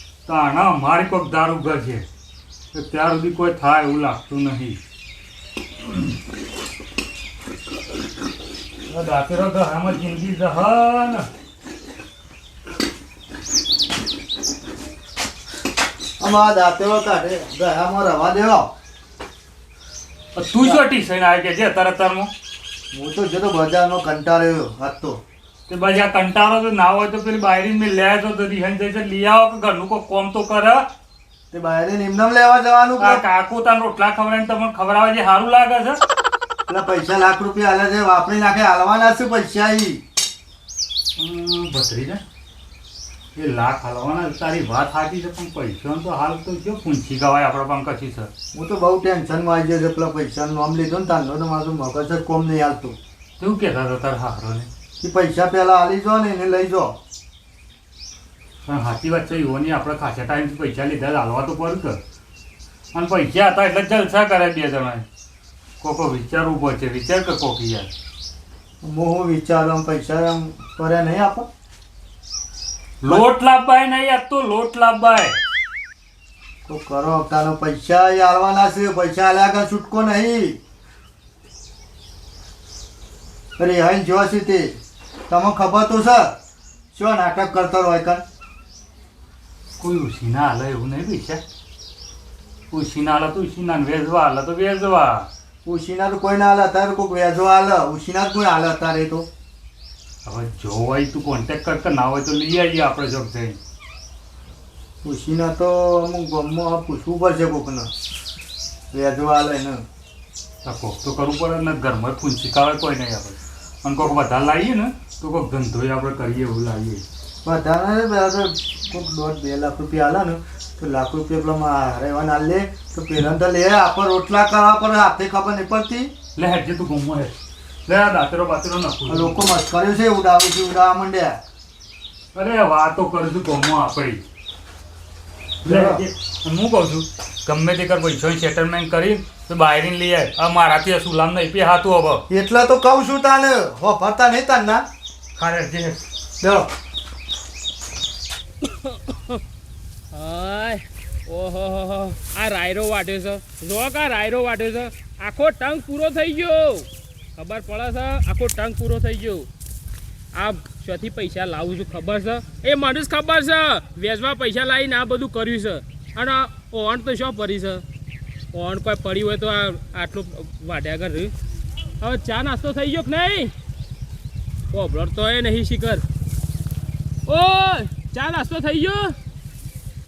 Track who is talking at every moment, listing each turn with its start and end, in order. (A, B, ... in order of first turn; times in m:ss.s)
0:00.2-0:02.0 A
0:02.7-0:04.8 A
0:08.9-0:11.3 A
0:16.2-0:18.7 B
0:20.3-0:22.3 A
0:22.9-0:25.2 B
0:25.7-0:30.9 A
0:31.5-0:33.2 B
0:33.0-0:36.0 A
0:36.7-0:40.0 B
0:41.2-0:42.2 A
0:43.3-0:48.3 A
0:48.5-0:53.0 B
0:53.4-0:54.7 A
0:55.0-0:57.0 B
0:58.6-1:02.0 A
1:02.9-1:05.0 A
1:05.8-1:07.9 A
1:08.8-1:11.5 B
1:13.0-1:15.4 A
1:16.6-1:20.6 B
1:23.6-1:26.3 B
1:26.9-1:28.2 B
1:29.8-1:31.4 A
1:32.7-1:35.3 A
1:35.6-1:39.3 B
1:40.2-1:43.6 A
1:45.0-1:47.9 B
1:48.9-1:49.8 B
1:50.6-1:57.0 A
1:57.4-2:06.1 B
2:06.4-2:07.3 A
2:07.9-2:09.5 A
2:09.1-2:11.4 B
2:12.3-2:14.2 A
2:15.6-2:22.2 A
2:15.6-2:16.0 B
2:22.3-2:24.8 B
2:25.4-2:26.0 A
2:26.4-2:26.7 B
2:28.6-2:29.4 C
2:30.1-2:39.5 C
2:40.3-2:47.8 C
2:48.5-2:51.3 C
2:52.0-2:53.5 C
2:54.7-2:56.0 C
2:57.3-2:59.1 C